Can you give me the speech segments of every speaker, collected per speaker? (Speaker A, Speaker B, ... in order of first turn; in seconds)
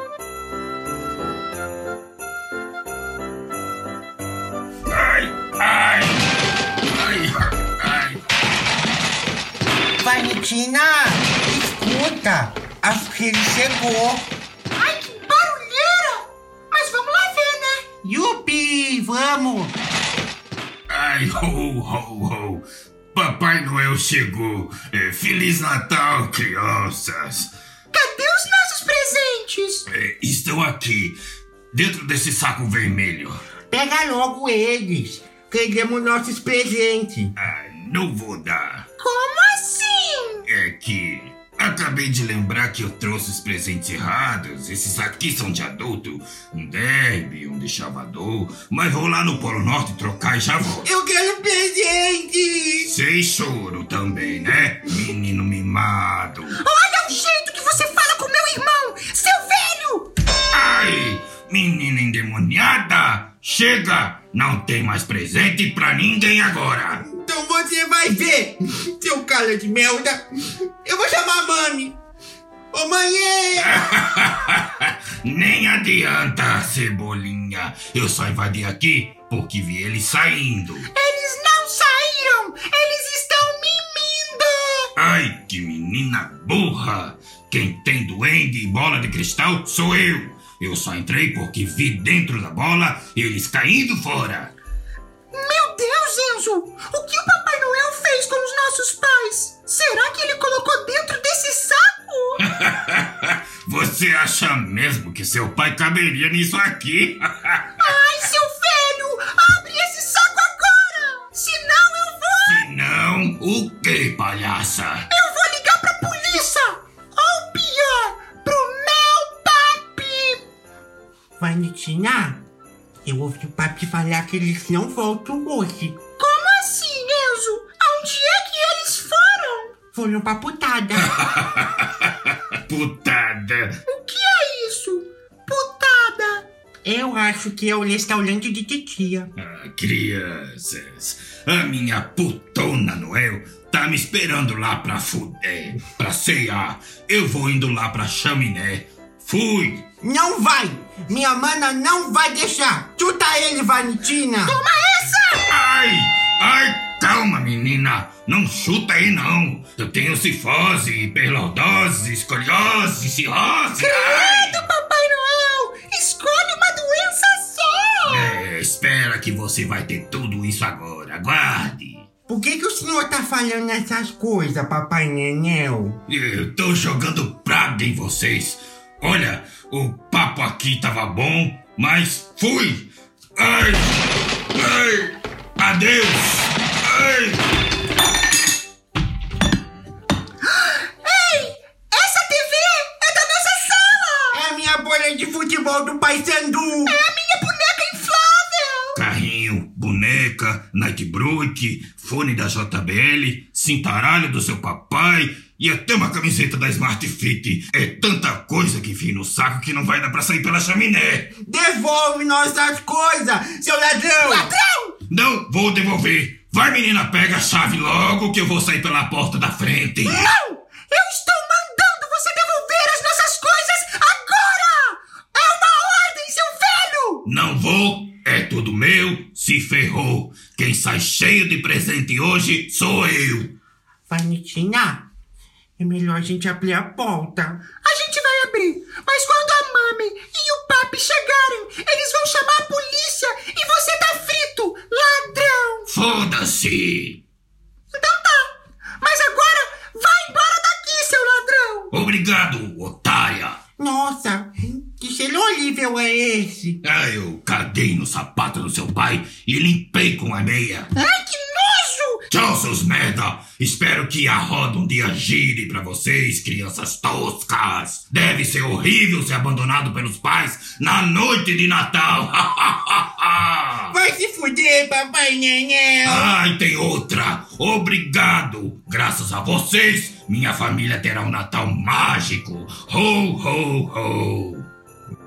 Speaker A: 4.9-6.3, 6.9-8.2, 20.9-27.5, 29.9-31.2, 31.7-33.4, 37.4-38.9, 40.5-50.9, 52.9-56.6, 60.5-67.0, 73.6-80.9, 85.0-94.5, 102.5-107.8, 112.4-115.1, 131.0-133.8, 139.4-149.9, 155.5-164.6, 168.0-172.1, 176.1-187.4, 198.9-211.3, 215.1-220.3, 227.2-233.5, 245.9-247.2, 251.9-253.6, 256.8-260.9, 262.3-273.9, 276.0-284.6
Speaker B: 10.0-14.3, 18.0-19.8, 33.7-37.3, 50.8-52.9, 66.9-70.3, 70.8-72.0, 72.7-74.0, 121.4-122.4, 123.0-126.2, 129.9-131.3, 136.8-139.3, 150.0-154.6, 172.3-176.0, 194.3-196.9, 211.4-214.5, 234.1-235.1, 235.8-237.7, 253.8-256.8, 273.9-276.3
Speaker C: 14.7-17.9, 27.9-29.9, 39.0-40.4, 56.5-60.1, 80.9-84.9, 95.3-102.4, 107.8-112.6, 115.1-120.4, 126.1-129.8, 133.9-136.4, 154.4-155.4, 163.8-168.3, 190.5-194.4, 196.8-199.0, 214.2-214.9, 220.2-227.2, 237.7-245.9, 247.9-251.9, 260.9-262.2